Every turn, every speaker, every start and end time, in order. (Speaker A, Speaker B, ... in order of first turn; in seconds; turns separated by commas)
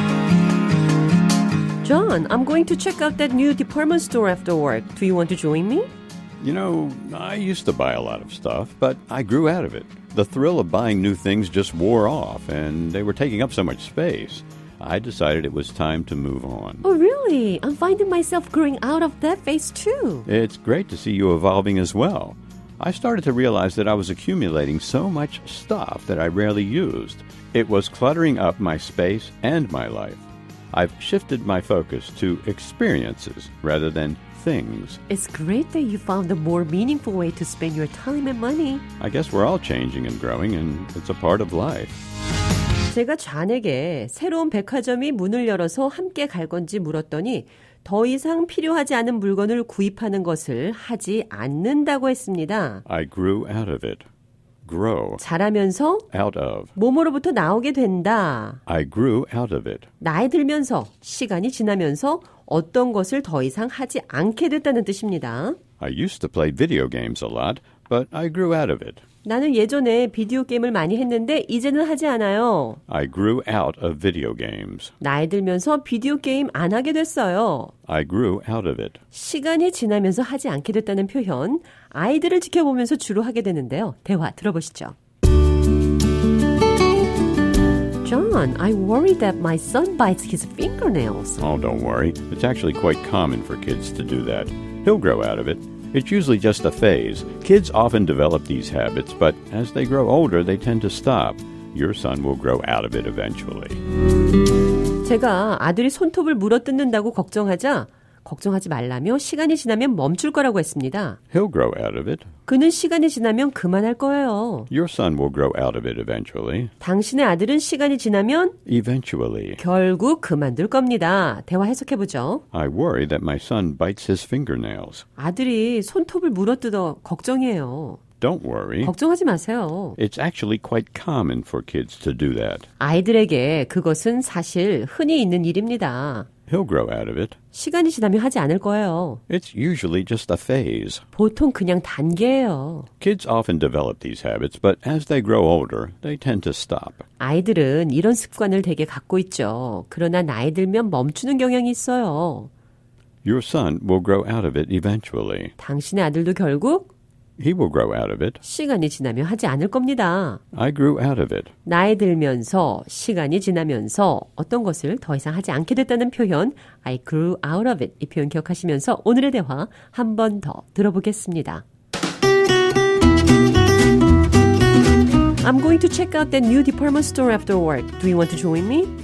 Speaker A: 1.8-5.9, Speaker B: 6.4-16.8, Speaker A: 16.8-20.3, Speaker B: 20.3-35.0, Speaker A: 35.1-38.8, Speaker B: 39.0-42.0, Speaker A: 42.9-52.8, Speaker B: 52.9-54.0, Speaker B: 54.6-55.2, Speaker A: 55.2-56.1, Speaker B: 56.1-56.7, Speaker A: 56.8-58.6, Speaker B: 58.7-59.9, Speaker A: 60.0-65.6, Speaker B: 65.8-69.0, Speaker A: 69.2-72.8, Speaker B: 72.9-74.9, Speaker A: 75.0-77.7, Speaker B: 77.9-79.0, Speaker A: 79.1-84.9, Speaker A: 88.0-91.4, Speaker B: 91.4-103.8, Speaker A: 105.0-111.2, Speaker B: 111.3-112.3, Speaker A: 112.5-114.7, Speaker B: 114.7-116.7, Speaker A: 116.8-118.6, Speaker B: 118.7-119.6, Speaker A: 119.6-122.4, Speaker B: 122.5-125.0, Speaker A: 125.2-128.0, Speaker B: 128.2-128.9, Speaker A: 128.8-130.0, Speaker B: 130.0-132.7, Speaker A: 132.8-136.3, Speaker B: 136.5-137.4, Speaker A: 137.5-139.2, Speaker B: 139.3-141.0, Speaker A: 141.2-142.9, Speaker B: 143.0-147.1, Speaker A: 147.2-152.5, Speaker B: 153.2-155.5, Speaker A: 155.6-156.9, Speaker B: 157.4-158.4, Speaker A: 158.4-160.4, Speaker B: 160.5-161.5, Speaker A: 161.7-171.6, Speaker A: 175.4-178.9